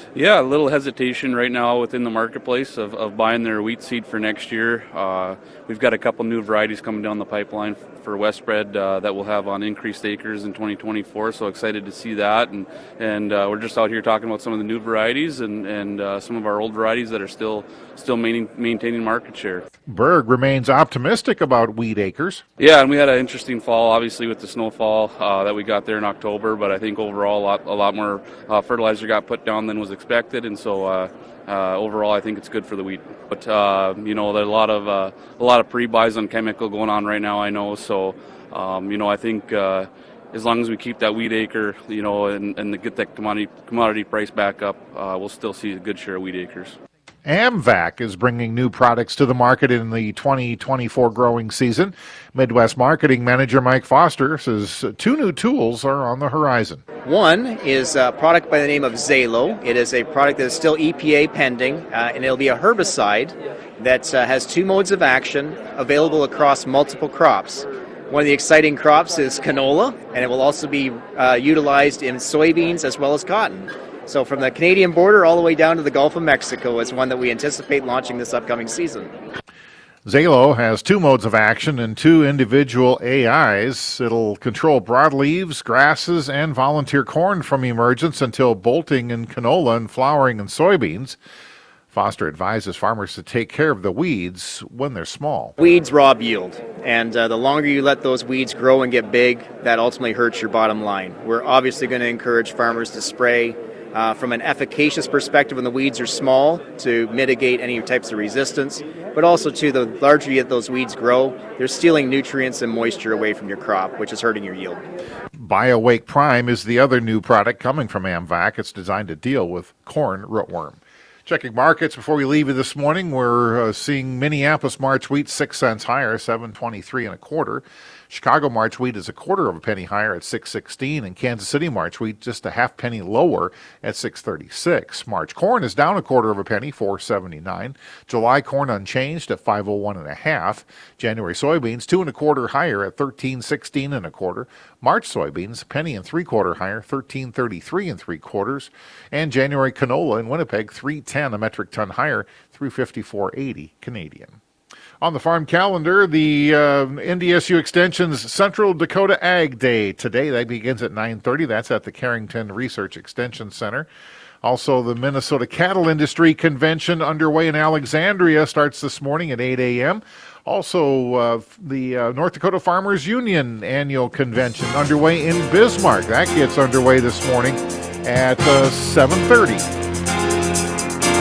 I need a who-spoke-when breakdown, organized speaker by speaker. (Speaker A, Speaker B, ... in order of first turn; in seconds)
Speaker A: 0.1-19.6, 22.6-46.8
Speaker B: 19.9-22.4, 47.2-56.8, 80.0-91.2, 91.9-95.5, 115.4-154.4, 155.0-163.9, 164.4-179.7
Speaker C: 57.0-79.1, 95.6-114.8